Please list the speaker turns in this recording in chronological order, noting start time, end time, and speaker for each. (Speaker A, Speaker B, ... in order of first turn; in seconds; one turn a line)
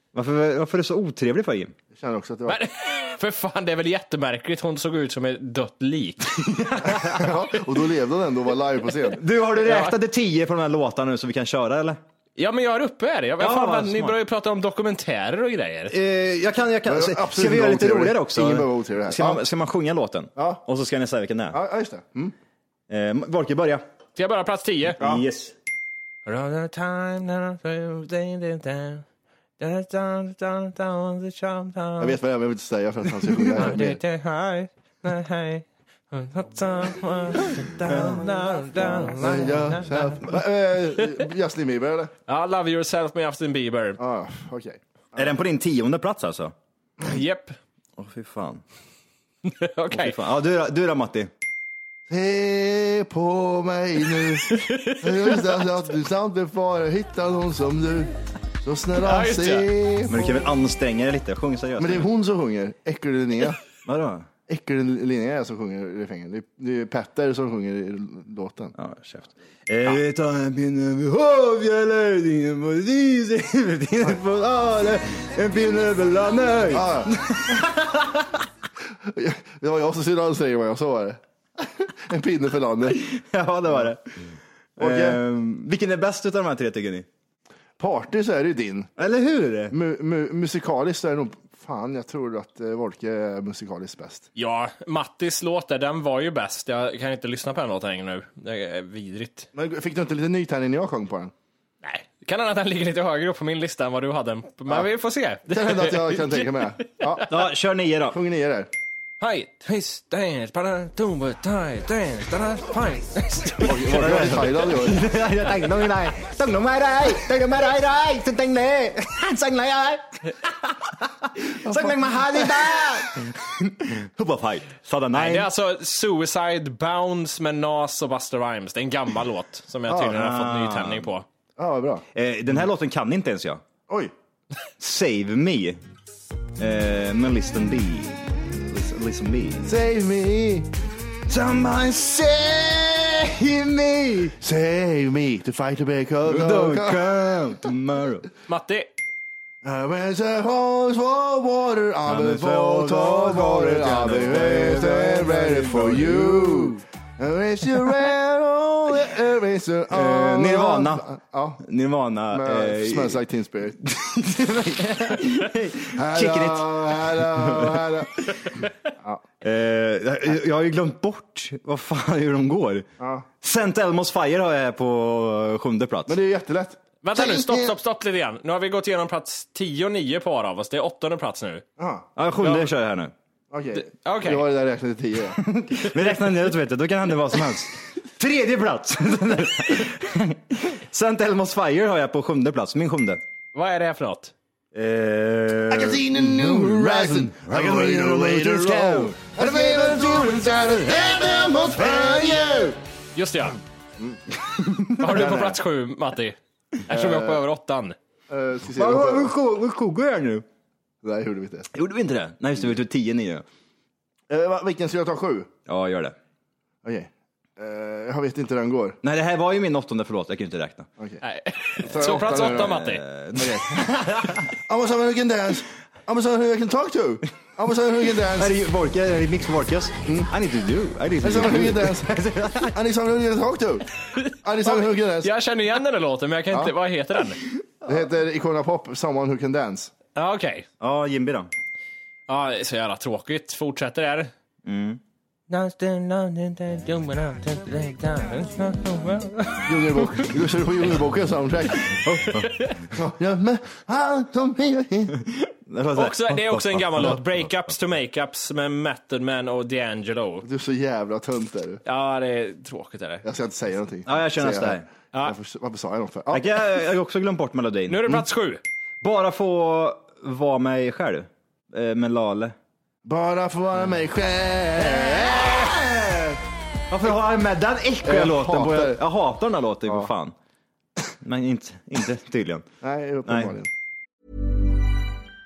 Speaker A: 0.1-1.8
Speaker B: 1.9-2.6
Speaker C: 2.5-6.4
Speaker A: 6.5-7.3
Speaker B: 6.9-9.2
Speaker A: 9.1-12.0
Speaker C: 9.6-9.9
Speaker C: 12.4-15.9
Speaker A: 13.4-14.2
Speaker A: 15.9-21.6
Speaker B: 16.9-19.4
Speaker B: 20.4-20.6
Speaker B: 21.5-22.3
Speaker A: 22.9-23.8
Speaker C: 24.2-25.0
Speaker A: 25.0-25.5
Speaker B: 25.0-25.2
Speaker C: 26.3-29.0
Speaker C: 29.6-32.2
Speaker B: 32.0-34.0
Speaker C: 33.6-40.2
Speaker A: 37.9-38.2
Speaker B: 39.1-42.1
Speaker C: 42.3-44.0
Speaker B: 44.0-45.4
Speaker A: 45.2-46.5
Speaker C: 47.0-47.6
Speaker A: 48.0-48.6
Speaker C: 49.5-50.2
Speaker A: 49.9-51.3
Speaker B: 52.1-58.1
Speaker C: 54.5-55.4
Speaker B: 58.6-60.4
Speaker C: 59.0-59.7
Speaker A: 60.1-62.1
Speaker B: 61.8-63.6
Speaker A: 63.9-64.3
Speaker B: 64.5-68.7
Speaker A: 68.8-78.4
Speaker B: 76.7-77.1
Speaker B: 79.1-83.0
Speaker A: 82.9-84.2
Speaker A: 84.8-87.1
Speaker B: 84.8-85.2
Speaker B: 87.8-88.9
Speaker A: 89.0-89.8
Speaker B: 89.7-94.3
Speaker C: 94.4-99.5
Speaker B: 99.5-101.3
Speaker C: 101.8-106.5
Speaker B: 105.5-107.2
Speaker A: 107.3-108.2
Speaker B: 108.1-108.7
Speaker C: 109.2-113.8
Speaker B: 113.6-115.0
Speaker A: 113.9-125.5
Speaker B: 121.7-122.7
Speaker C: 125.1-131.3
Speaker A: 130.0-131.1
Speaker B: 131.6-132.1
Speaker A: 132.2-133.6
Speaker A: 134.8-135.8
Speaker A: 136.6-139.7
Speaker B: 139.7-140.7
Speaker A: 141.3-144.3
Speaker B: 144.4-147.3
Speaker A: 146.3-148.3
Speaker C: 148.5-148.9
Speaker B: 149.6-161.6
Speaker A: 152.1-156.8
Speaker A: 159.9-161.1
Speaker A: 161.6-163.2
Speaker B: 162.3-163.8
Speaker A: 163.8-168.4
Speaker B: 166.0-168.2
Speaker A: 169.4-172.9
Speaker B: 173.0-173.3
Speaker A: 173.4-176.2
Speaker B: 176.1-177.7
Speaker C: 177.0-181.6
Speaker B: 181.8-182.1
Speaker A: 182.2-183.1
Speaker C: 182.4-182.7
Speaker B: 183.5-185.4
Speaker C: 183.8-184.4
Speaker A: 185.4-193.2
Speaker C: 193.5-194.3
Speaker A: 194.7-200.6
Speaker B: 195.7-202.8
Speaker A: 201.6-202.6
Speaker C: 203.2-203.6
Speaker A: 204.5-205.1
Speaker C: 205.0-208.0
Speaker B: 205.0-205.6
Speaker B: 206.9-207.4
Speaker B: 208.3-209.3
Speaker A: 208.8-210.4
Speaker B: 211.0-211.7
Speaker A: 211.7-213.4
Speaker B: 214.3-215.5
Speaker A: 215.7-216.2
Speaker B: 216.8-219.0
Speaker A: 219.0-220.9
Speaker C: 221.2-223.0
Speaker B: 221.8-222.8
Speaker A: 222.1-224.5
Speaker B: 223.4-223.8
Speaker B: 224.7-228.5
Speaker A: 228.4-232.7
Speaker B: 231.2-232.1
Speaker B: 232.7-233.9
Speaker C: 234.2-237.4
Speaker B: 234.4-235.3
Speaker B: 237.9-239.9
Speaker C: 240.2-240.7
Speaker A: 240.8-241.5
Speaker C: 242.3-244.3
Speaker A: 244.7-245.0
Speaker C: 245.5-250.2
Speaker B: 249.7-252.0
Speaker A: 252.2-252.5
Speaker C: 252.3-252.7
Speaker B: 252.9-255.2
Speaker A: 255.3-257.5
Speaker C: 255.9-260.5
Speaker B: 260.4-261.8
Speaker C: 261.9-263.2
Speaker B: 263.2-266.4
Speaker A: 264.1-264.9
Speaker A: 266.3-268.2
Speaker C: 267.9-268.6
Speaker A: 269.0-272.6
Speaker B: 273.1-275.7
Speaker A: 274.8-280.3
Speaker B: 278.1-279.0
Speaker A: 281.2-282.7
Speaker B: 282.8-283.7
Speaker A: 283.3-283.5